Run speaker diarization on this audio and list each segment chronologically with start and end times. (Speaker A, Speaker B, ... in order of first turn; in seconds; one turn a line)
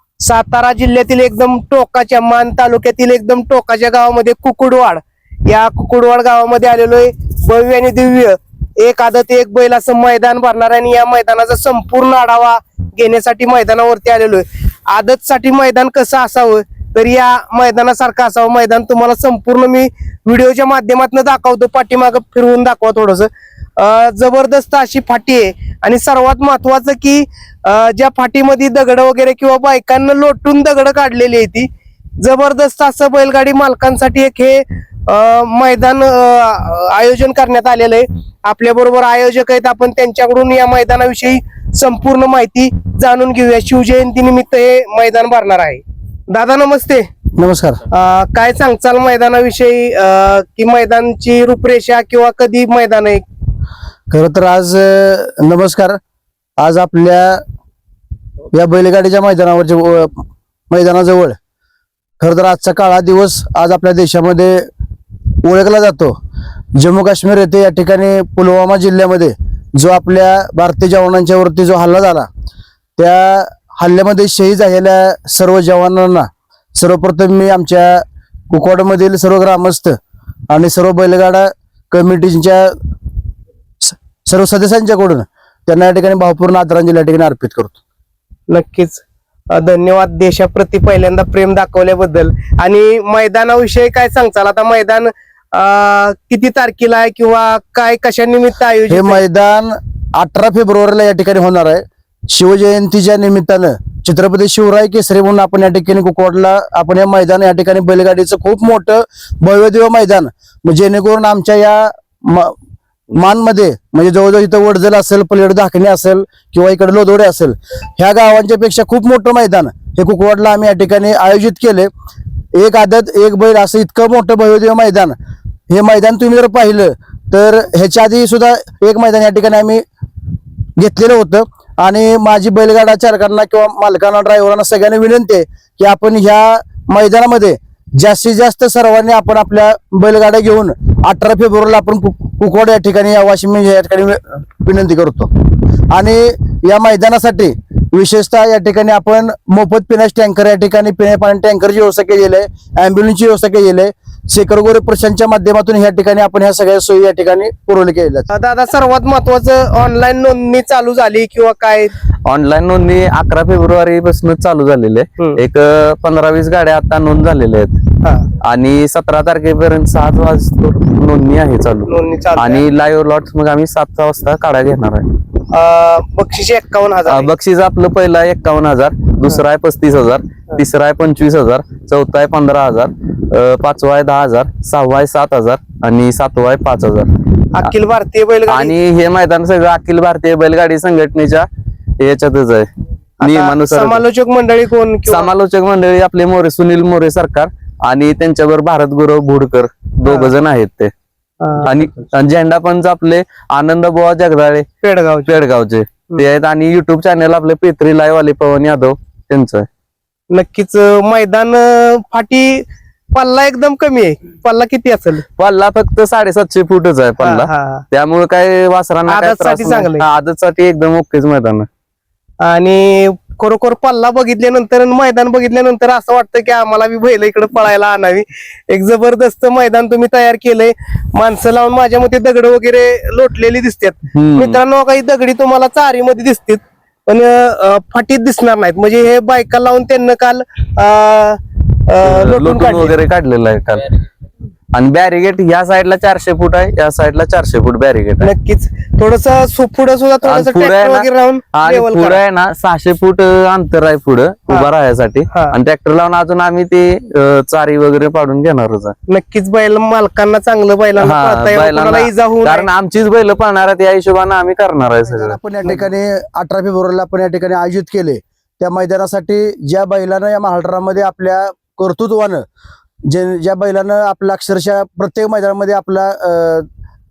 Speaker A: 0.2-47.1
Speaker B: 47.4-47.8
Speaker A: 47.9-53.2
Speaker B: 54.1-56.0
Speaker B: 56.6-57.4
Speaker B: 58.5-61.4
Speaker B: 62.2-64.7
Speaker B: 65.4-66.2
Speaker B: 66.7-72.3
Speaker B: 73.0-80.0
Speaker B: 80.5-82.8
Speaker B: 83.8-87.8
Speaker A: 88.5-99.2
Speaker B: 98.9-112.5
Speaker B: 113.1-121.9
Speaker B: 122.5-125.2
Speaker B: 125.7-129.8
Speaker B: 130.8-145.3
Speaker B: 145.9-158.3
Speaker A: 158.3-161.9
Speaker C: 162.2-167.8
Speaker A: 168.0-168.3
Speaker C: 168.4-175.1
Speaker A: 171.9-172.6
Speaker A: 175.5-177.3
Speaker C: 177.1-187.7
Speaker A: 187.5-188.7
Speaker C: 188.5-191.4
Speaker C: 192.0-192.7
Speaker C: 193.2-194.0
Speaker A: 193.2-195.3
Speaker C: 195.1-200.9
Speaker A: 200.0-200.3
Speaker A: 201.4-201.7
Speaker C: 201.6-204.7
Speaker A: 204.8-205.3
Speaker C: 205.2-209.7
Speaker A: 210.3-215.2
Speaker C: 215.4-221.7
Speaker A: 217.2-217.8
Speaker A: 219.1-220.1
Speaker A: 222.4-242.9
Speaker C: 234.1-234.6
Speaker C: 242.0-244.0
Speaker C: 244.7-248.3
Speaker A: 248.2-252.2
Speaker C: 250.2-258.9
Speaker A: 255.3-255.6
Speaker A: 259.1-262.7
Speaker C: 261.0-265.4
Speaker B: 265.1-272.4
Speaker B: 273.1-276.7